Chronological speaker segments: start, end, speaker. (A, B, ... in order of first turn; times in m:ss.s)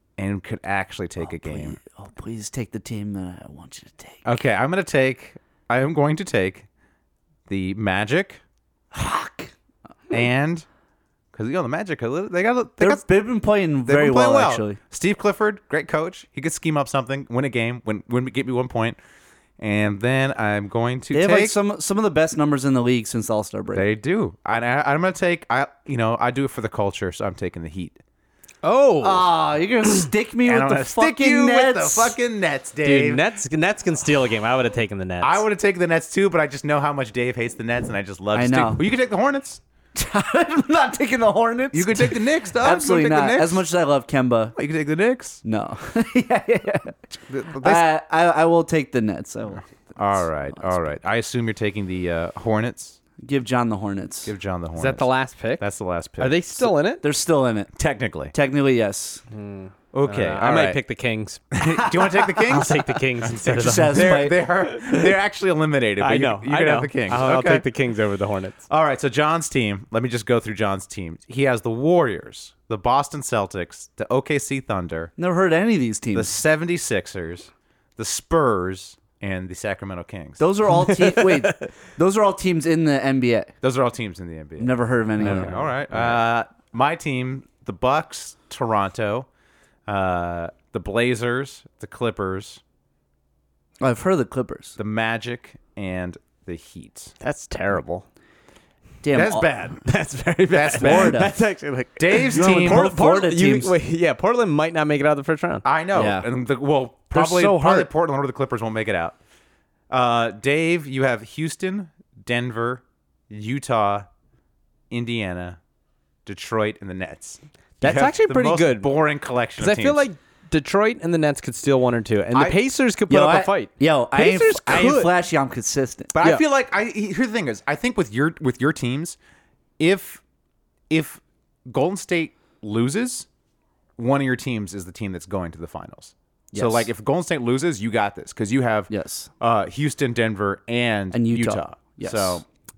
0:00.2-0:01.8 A
0:01.2-0:04.2 B
0:04.2-0:06.7 A
0:07.5-0:08.4 A
0:08.9-0:09.5 B
0:10.1-0:10.7 A
0:11.3-0:13.0 A
0:12.8-0:14.8 B
0:13.9-0:19.0 A
0:19.6-0:21.6 A
0:21.1-0:23.9 B
0:23.7-0:28.0 A
0:28.6-0:29.3 C
0:29.0-0:32.2 B
0:30.4-0:33.2 A
0:32.8-0:35.4 C
0:35.2-0:39.6 A
0:38.3-0:38.8 B
0:40.0-0:44.6 B
0:41.7-0:43.7 A
0:44.6-0:45.4 A
0:45.4-0:47.0 B
0:47.1-0:47.9 A
0:47.6-0:49.6 B
0:50.0-0:53.0 A
0:50.2-0:51.0 B
0:53.2-0:54.3 B
0:54.2-0:56.7 A
0:54.8-0:55.7 C
0:56.2-0:57.0 C
0:57.0-0:57.7 B
0:57.8-0:58.3 A
0:58.3-0:59.2 B
0:59.3-1:01.4 C
0:59.9-1:00.8 A
1:01.5-1:07.7 A
1:02.2-1:02.6 B
1:02.5-1:05.1 C
1:03.4-1:04.4 B
1:06.0-1:08.6 C
1:08.7-1:15.1 A
1:15.2-1:16.3 B
1:16.1-1:20.5 A
1:20.4-1:23.5 B
1:20.9-1:21.6 C
1:23.6-1:29.3 A
1:24.6-1:25.6 B
1:25.2-1:25.7 C
1:29.9-1:32.6 A
1:33.8-1:34.8 B
1:34.8-1:37.1 A
1:37.2-1:38.1 C
1:39.0-1:39.5 B
1:39.1-1:39.8 A
1:39.9-1:45.6 C
1:40.5-1:41.3 A
1:40.8-1:41.4 B
1:42.0-1:43.0 A
1:42.3-1:43.7 B
1:45.6-1:49.2 A
1:46.0-1:46.3 B
1:47.1-1:47.9 B
1:49.9-1:54.1 A
1:54.9-1:55.6 A
1:56.3-2:00.0 A
1:57.8-1:59.1 C
1:59.6-2:05.1 C
2:02.3-2:02.6 A
2:03.1-2:06.1 B
2:06.1-2:09.2 A
2:09.8-2:10.2 A
2:10.9-2:13.3 A
2:14.0-2:22.4 A
2:16.5-2:16.9 B
2:18.9-2:19.3 B
2:21.1-2:22.4 B